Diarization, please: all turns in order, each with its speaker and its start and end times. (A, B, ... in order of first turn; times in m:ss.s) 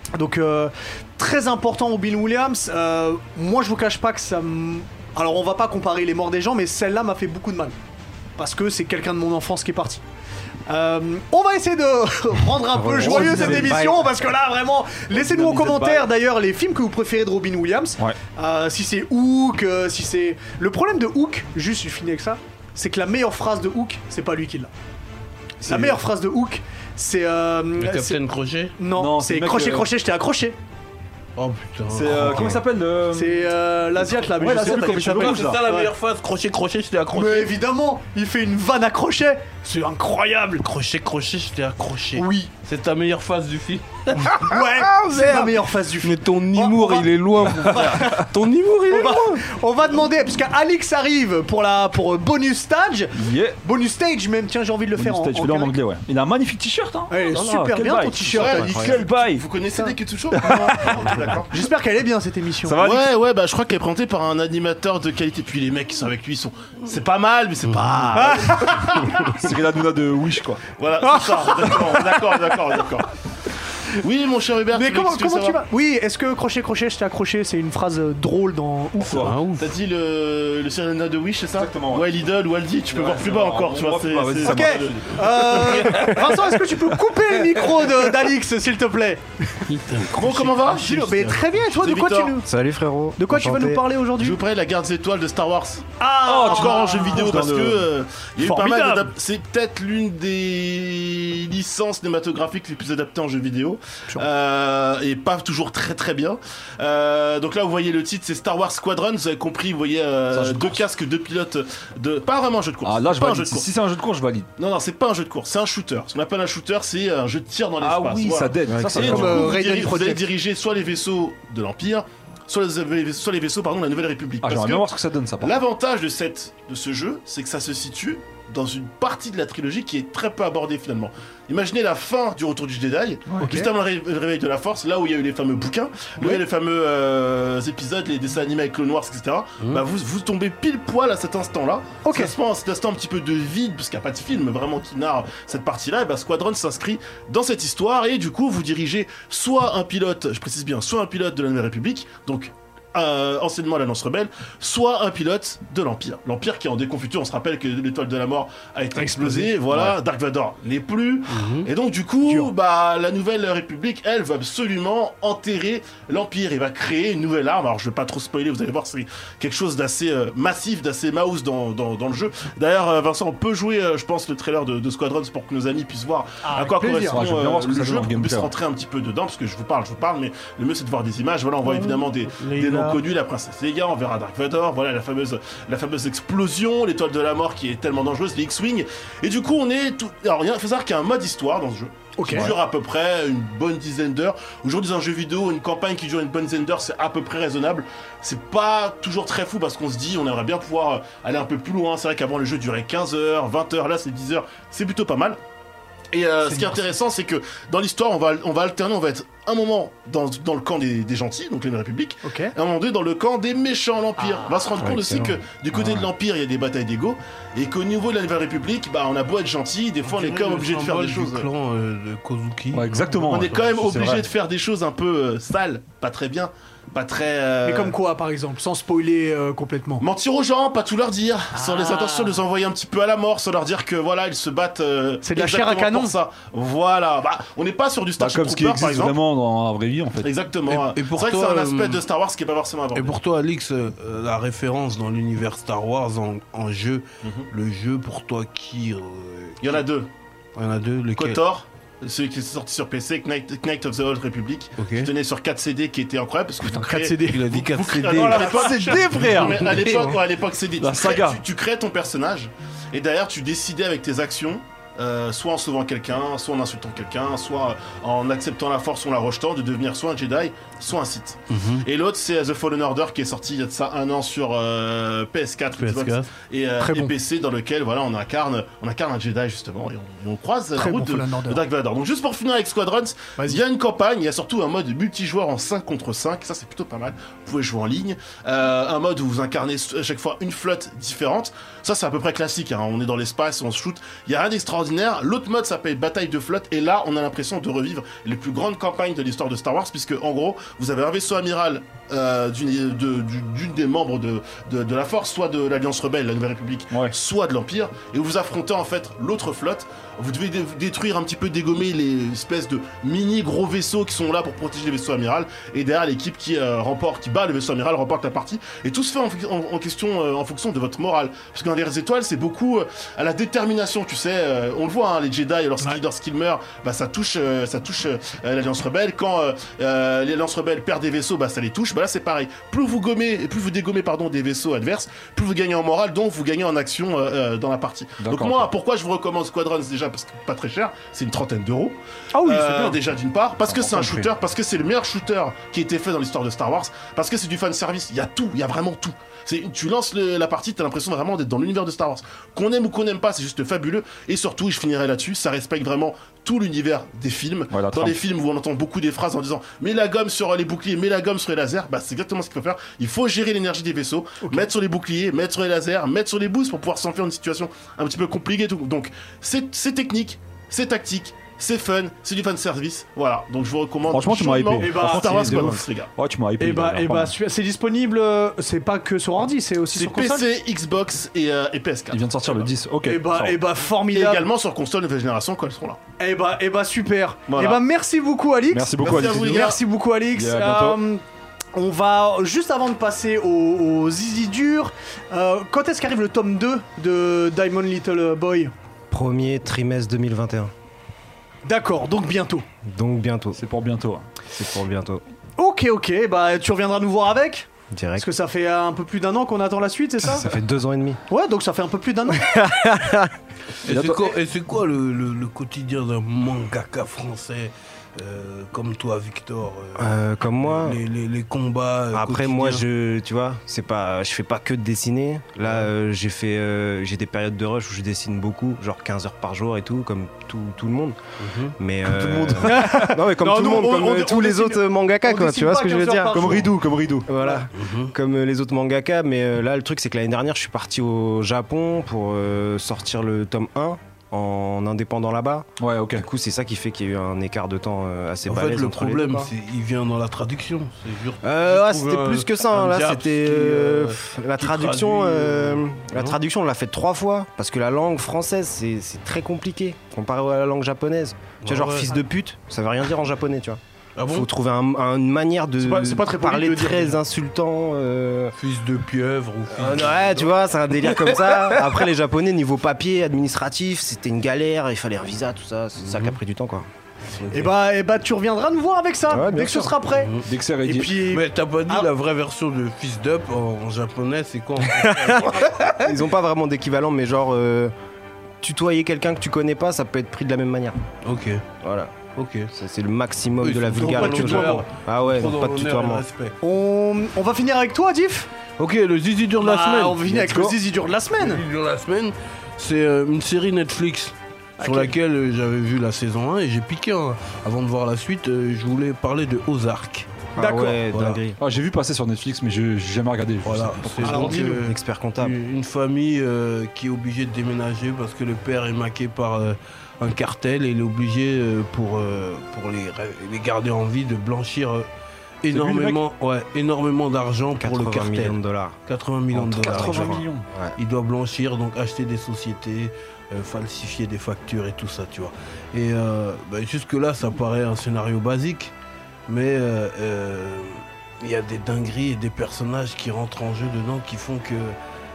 0:00.1-0:07.7 A
0:08.4-0:10.0 A
0:10.7-0:24.7 A
0:12.7-0:14.0 B
0:13.0-0:13.9 C
0:15.1-0:16.0 B
0:25.6-0:26.0 C
0:25.6-0:28.2 A
0:27.8-0:28.8 D
0:28.8-0:30.6 A
0:28.9-0:29.9 C
0:31.4-0:32.6 D
0:31.9-0:33.4 C
0:33.1-0:35.9 A
0:34.1-0:35.6 C
0:34.4-0:37.5 D
0:37.1-0:40.6 A
0:40.6-0:49.4 D
0:42.2-0:42.5 A
0:44.2-0:48.3 A
0:47.6-0:48.0 C
0:48.9-0:55.7 A
0:53.1-0:53.6 C
0:55.0-0:59.4 C
0:57.1-0:59.0 A
0:58.3-1:01.6 E
1:00.3-1:01.3 C
1:00.5-1:00.8 A
1:01.5-1:02.8 A
1:02.6-1:03.1 C
1:02.8-1:09.5 E
1:07.7-1:08.1 D
1:08.1-1:09.3 A
1:09.1-1:10.6 C
1:10.8-1:13.1 E
1:11.0-1:12.6 A
1:14.0-1:15.6 E
1:14.7-1:19.3 A
1:19.0-1:19.4 C
1:19.1-1:19.7 D
1:19.6-1:26.0 E
1:21.6-1:22.1 C
1:23.0-1:26.0 C
1:24.4-1:29.7 A
1:29.7-1:31.5 D
1:30.1-1:32.4 E
1:30.4-1:32.5 A
1:32.4-1:33.8 B
1:33.2-1:34.4 A
1:34.2-1:53.7 E
1:36.0-1:37.3 A
1:36.3-1:37.8 C
1:38.4-1:39.1 A
1:50.3-1:50.8 C
1:52.8-1:54.5 C
1:54.6-3:25.4 E
1:57.8-1:59.5 C
1:58.7-1:59.4 B
1:58.9-2:00.2 A
2:04.4-2:05.6 C
2:13.4-2:13.7 A
2:22.0-2:22.3 A
2:38.9-2:39.6 A
2:41.3-2:41.7 D
2:56.4-2:57.2 A
2:57.1-2:58.5 C
3:01.6-3:02.6 A
3:02.3-3:03.0 D
3:12.2-3:12.5 A
3:26.1-3:41.5 E
3:32.2-3:32.5 A
3:34.8-3:35.4 B
3:35.7-3:36.1 C
3:40.0-3:42.9 D
3:42.7-3:44.2 C
3:43.2-3:48.0 E
3:47.6-3:50.0 A
3:50.0-3:59.2 E
3:51.6-3:52.4 A
3:55.2-3:56.1 A
3:58.2-4:00.3 C
4:00.2-4:03.2 E
4:00.7-4:02.0 D
4:02.9-4:09.8 D
4:07.2-4:07.5 E
4:09.6-4:10.1 E
4:10.6-4:11.4 D
4:11.2-6:16.1 E
4:14.8-4:15.1 D
4:16.6-4:17.5 A
4:17.2-4:20.0 D
4:18.1-4:19.3 A
4:18.2-4:20.2 C
4:20.8-4:21.4 C
4:31.5-4:31.8 D
4:35.8-4:36.3 D
4:36.8-4:37.1 A
4:40.8-4:41.6 A
5:38.2-5:38.7 C
5:42.3-5:43.0 A
5:43.6-5:44.2 C
5:57.7-5:58.2 C
6:04.4-6:04.7 A
6:14.1-6:17.3 C
6:14.8-6:15.6 A
6:16.6-6:20.4 A
6:19.9-6:22.7 E
6:22.1-6:23.6 C
6:23.0-6:24.4 A
6:24.1-6:26.0 E
6:26.2-6:31.2 A
6:27.5-6:27.8 E
6:28.7-6:29.7 C
6:29.0-6:29.8 E
6:30.3-6:31.0 C
6:31.7-6:38.7 A
6:39.1-6:40.7 B
6:41.6-6:42.6 A
6:42.8-6:43.6 B
6:43.5-6:44.2 C
6:44.5-6:45.2 B
6:45.6-6:50.5 A
6:47.9-6:48.3 B
6:50.2-6:51.2 B
6:51.3-6:52.5 A
6:52.4-6:53.3 B
6:53.8-7:02.8 D
6:53.8-6:54.3 C
7:00.0-7:01.0 B
7:02.1-7:11.2 B
7:05.6-7:05.9 D
7:11.4-7:11.7 D
7:11.8-7:16.7 B
7:12.0-7:13.2 C
7:12.6-7:16.8 A
7:16.3-7:17.3 C
7:17.3-7:29.5 B
7:17.4-7:17.6 A
7:17.7-7:18.1 D
7:25.8-7:26.2 C
7:28.4-7:36.4 D
7:31.4-7:48.5 B
7:41.6-7:42.1 D
7:44.2-7:44.5 D
7:45.8-7:47.2 A
7:48.6-7:52.1 D
7:49.7-7:56.8 B
7:56.0-7:56.3 D
7:57.4-7:57.7 D
7:57.5-8:02.1 A
7:59.3-8:00.0 B
8:00.2-8:00.5 D
8:00.4-8:01.2 C
8:01.3-8:06.2 D
8:04.9-8:07.9 B
8:08.6-8:11.0 B
8:11.2-8:11.6 D
8:11.8-8:12.1 B
8:12.4-8:12.7 D
8:12.7-8:16.2 B
8:13.6-8:16.6 D
8:14.0-8:14.8 A
8:16.6-8:18.5 A
8:18.8-8:20.8 D
8:19.6-8:21.6 A
8:21.4-8:30.3 D
8:24.8-8:25.1 A
8:30.6-8:31.6 B
8:30.6-8:31.0 A
8:31.1-8:31.4 D
8:31.6-8:34.7 C
8:33.6-8:45.0 D
8:34.2-8:34.8 A
8:34.8-8:35.6 B
8:45.6-8:50.4 D
8:45.7-8:46.2 C
8:47.8-8:49.0 B
8:49.5-8:50.9 B
8:49.6-8:50.7 C
8:51.0-8:58.9 D
8:59.5-9:05.0 D